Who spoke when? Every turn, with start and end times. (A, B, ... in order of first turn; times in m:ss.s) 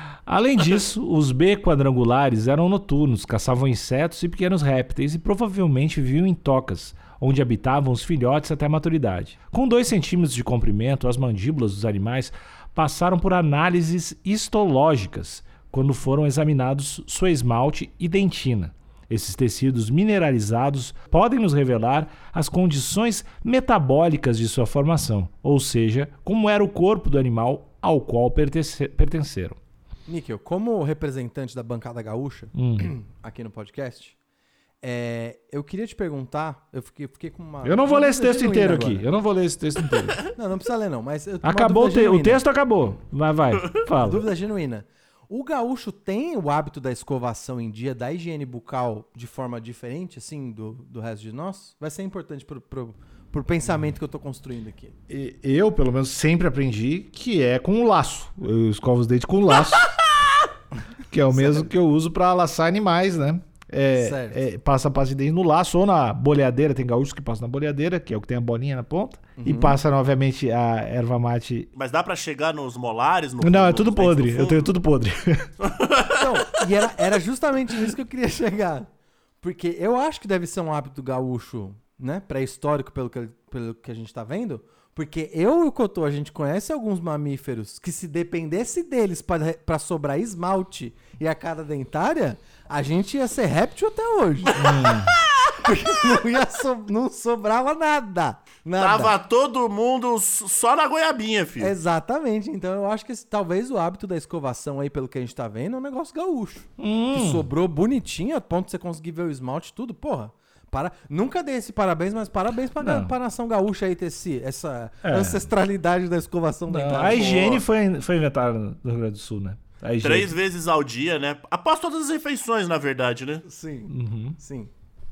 0:00.3-0:29.6 A
0:30.1-0:34.2 B
0:32.6-0:32.9 A
0:34.8-0:39.0 B
0:37.6-0:40.2 A
0:40.3-0:42.4 B
0:41.4-0:44.3 A
0:44.0-0:54.9 B
0:55.1-0:59.9 A
1:01.1-1:11.7 A
1:01.3-1:01.7 B
1:04.0-1:04.4 B
1:09.4-1:09.8 B
1:11.8-1:14.7 C
1:13.4-1:15.5 A
1:15.6-1:16.3 C
1:16.1-1:18.9 B
1:19.4-1:34.6 B
1:34.6-1:35.1 A
1:34.6-1:35.1 C
1:35.5-1:39.1 B
1:38.8-1:41.7 C
1:41.6-1:57.6 B
1:46.8-1:47.5 A
1:52.8-1:53.1 A
1:55.0-1:55.4 A
1:56.7-2:00.3 A
1:57.1-1:57.6 C
2:00.0-2:03.4 C
2:03.4-2:04.7 B
2:03.9-2:04.4 A